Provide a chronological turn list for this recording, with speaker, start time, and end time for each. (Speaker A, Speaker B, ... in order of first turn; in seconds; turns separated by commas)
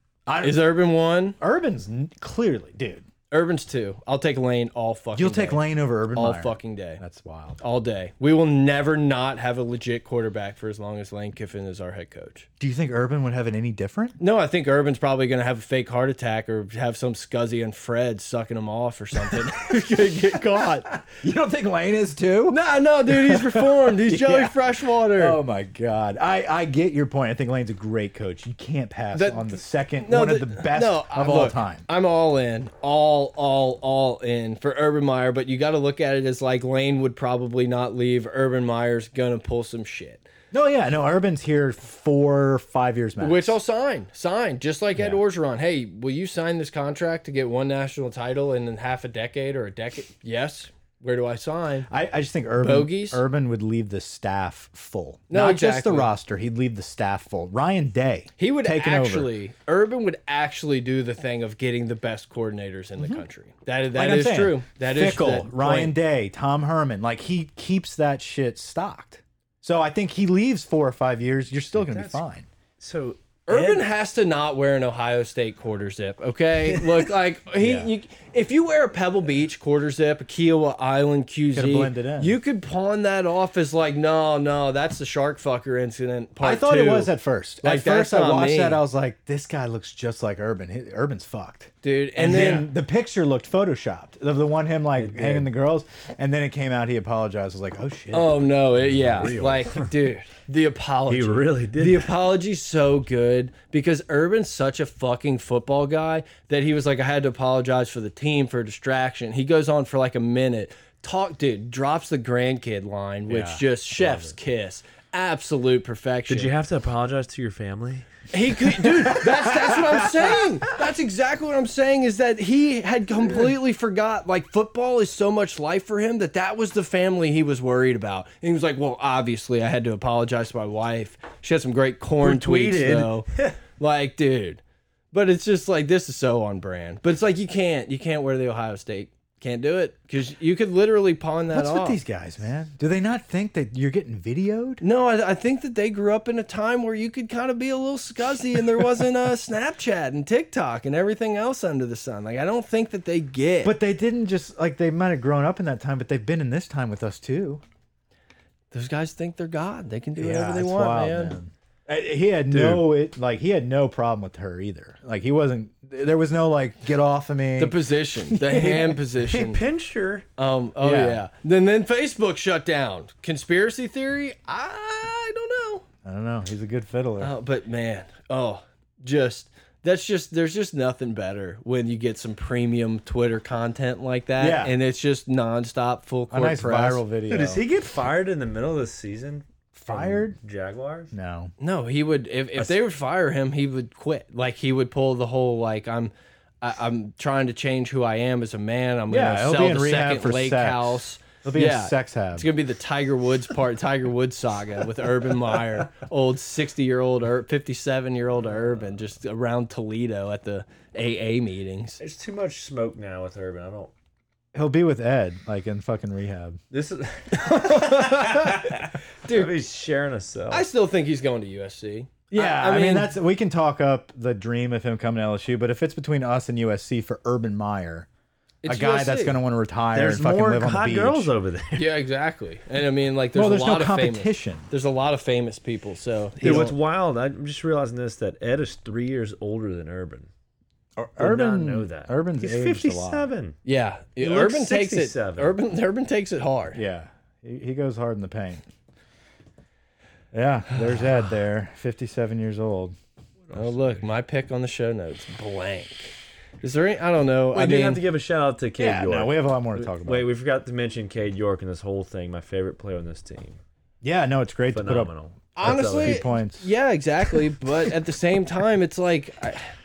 Speaker A: 0.3-0.6, Speaker B: 0.4-1.4, Speaker A: 1.4-3.0, Speaker B: 3.3-7.0, Speaker A: 5.2-7.6, Speaker B: 7.6-12.5, Speaker A: 12.6-14.2, Speaker B: 14.2-21.0, Speaker A: 21.0-24.6, Speaker B: 22.5-25.4, Speaker A: 25.1-31.9, Speaker B: 29.1-40.2, Speaker A: 40.5-43.6, Speaker B: 43.2-51.9, Speaker A: 51.9-59.3, Speaker B: 52.6-53.2, Speaker B: 55.3-56.1, Speaker B: 58.4-66.0, Speaker A: 63.0-63.2, Speaker A: 63.9-72.5, Speaker C: 71.8-72.2, Speaker C: 72.8-73.8, Speaker B: 73.5-88.8, Speaker C: 76.7-77.1, Speaker A: 77.6-77.9, Speaker A: 81.5-82.4, Speaker A: 86.4-98.4, Speaker B: 91.8-92.7, Speaker C: 95.0-95.5, Speaker B: 98.1-116.5, Speaker C: 98.8-99.9, Speaker C: 101.1-102.1, Speaker C: 113.5-114.3, Speaker C: 116.3-118.2, Speaker B: 118.3-142.0, Speaker A: 119.3-119.9, Speaker C: 132.2-133.6, Speaker A: 141.5-144.8, Speaker B: 144.8-153.8, Speaker A: 153.6-157.6, Speaker B: 158.7-161.4, Speaker A: 160.2-167.8, Speaker C: 162.5-162.8, Speaker B: 167.6-169.6, Speaker A: 168.3-168.9, Speaker C: 169.2-170.3, Speaker B: 170.4-175.8, Speaker A: 170.8-171.2, Speaker A: 176.1-177.3, Speaker B: 177.2-187.0, Speaker A: 184.4-184.8, Speaker A: 186.3-187.6, Speaker C: 187.3-191.1, Speaker A: 189.8-190.4, Speaker A: 191.1-191.5, Speaker B: 191.6-212.0, Speaker A: 199.1-202.5, Speaker C: 212.0-213.9, Speaker A: 214.5-216.6, Speaker C: 216.7-220.7, Speaker B: 217.3-219.6, Speaker B: 220.5-223.1, Speaker A: 222.3-228.1, Speaker B: 228.6-229.4, Speaker A: 228.7-231.3, Speaker C: 229.9-231.9, Speaker B: 231.7-236.7, Speaker A: 233.3-234.7, Speaker A: 236.4-236.8, Speaker C: 236.4-240.3, Speaker A: 241.0-243.3, Speaker C: 241.2-243.6, Speaker B: 243.7-246.8, Speaker C: 244.2-245.6, Speaker A: 246.7-248.6, Speaker A: 250.3-253.0, Speaker C: 253.5-254.1, Speaker B: 253.5-258.0, Speaker C: 257.5-263.6, Speaker A: 258.8-260.3, Speaker A: 264.0-265.1, Speaker C: 264.7-266.3, Speaker B: 265.6-269.7, Speaker A: 265.6-266.7